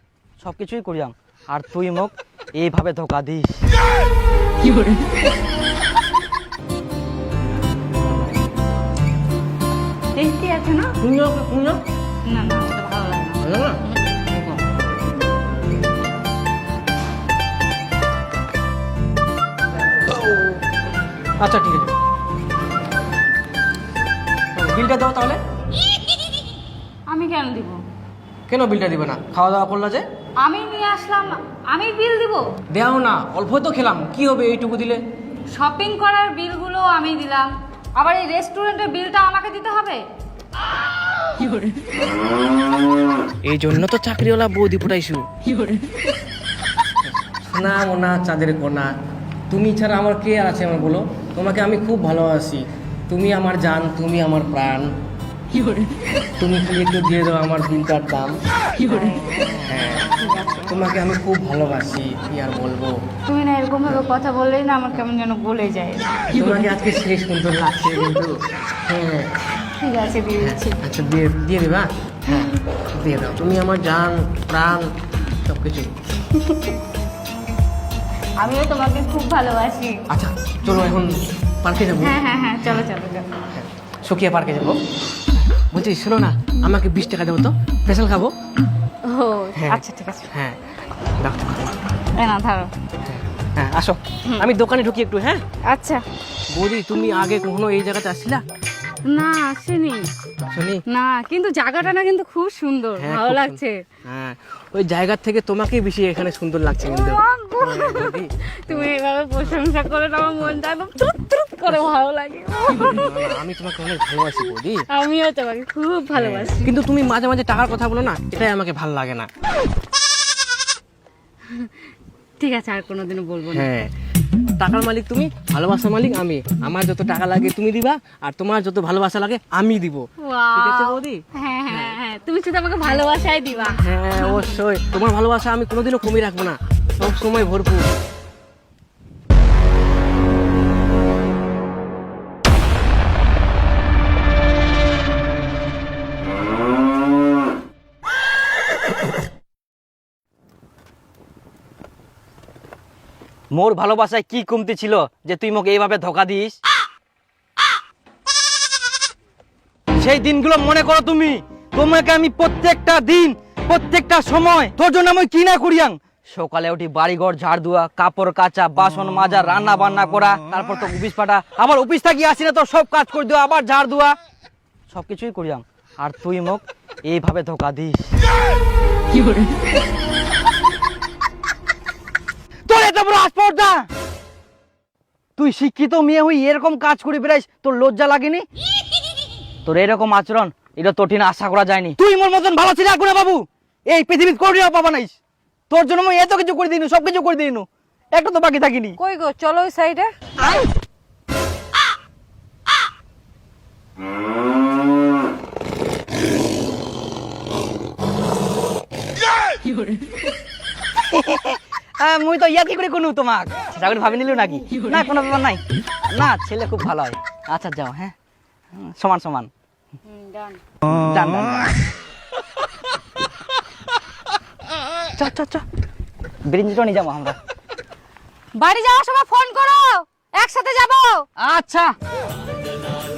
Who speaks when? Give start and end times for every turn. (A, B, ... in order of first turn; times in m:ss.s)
0:00.4-0:03.6 A
0:10.1-0:10.9 B
0:11.0-0:11.8 C
0:12.2-0:14.2 B
0:13.4-0:13.8 C
0:21.4-0:21.9 C
0:24.6-0:25.4 C
0:27.1-0:27.8 B
0:28.5-0:30.0 C
0:30.4-0:32.5 B
0:32.7-0:35.0 C
0:35.5-0:40.0 B
0:43.4-0:45.2 C
0:47.2-0:48.9 C
0:49.5-0:54.9 C
0:56.4-0:58.3 C
0:58.8-0:59.3 B
0:59.7-1:00.1 C
1:00.2-1:00.7 B
1:00.7-1:03.0 C
1:03.3-1:06.4 B
1:06.3-1:09.4 C
1:09.6-1:10.8 B
1:10.4-1:14.9 C
1:12.3-1:12.5 B
1:15.4-1:15.9 C
1:16.4-1:16.7 B
1:18.4-1:20.0 B
1:20.1-1:22.8 C
1:22.0-1:23.3 B
1:23.5-1:24.8 C
1:25.5-1:28.3 C
1:29.0-1:30.3 B
1:29.5-1:29.8 C
1:30.3-1:30.6 C
1:31.2-1:31.6 C
1:32.1-1:32.7 B
1:33.1-1:35.4 C
1:35.7-1:36.0 B
1:36.5-1:38.4 C
1:39.0-1:40.1 B
1:40.4-1:40.8 C
1:40.9-1:43.8 B
1:43.0-1:48.9 C
1:46.8-1:53.2 B
1:52.8-1:54.8 C
1:54.9-1:56.7 B
1:56.1-1:59.3 C
2:01.5-2:01.7 B
2:02.4-2:03.7 B
2:03.5-2:03.9 C
2:04.6-2:10.0 C
2:10.2-2:14.4 B
2:10.5-2:12.0 C
2:13.8-2:17.9 C
2:33.5-2:36.6 A
2:39.9-2:54.2 A
2:54.9-2:58.1 A
3:02.7-3:03.8 A
3:05.4-3:08.4 A
3:09.6-3:15.1 A
3:15.7-3:19.0 A
3:19.0-3:20.1 B
3:31.0-3:38.1 A
3:38.7-3:39.5 A
3:40.1-3:40.6 B
3:40.8-3:41.8 A
3:45.2-3:45.6 A
3:46.5-3:47.3 A
3:48.6-3:51.3 B
3:51.4-3:51.9 A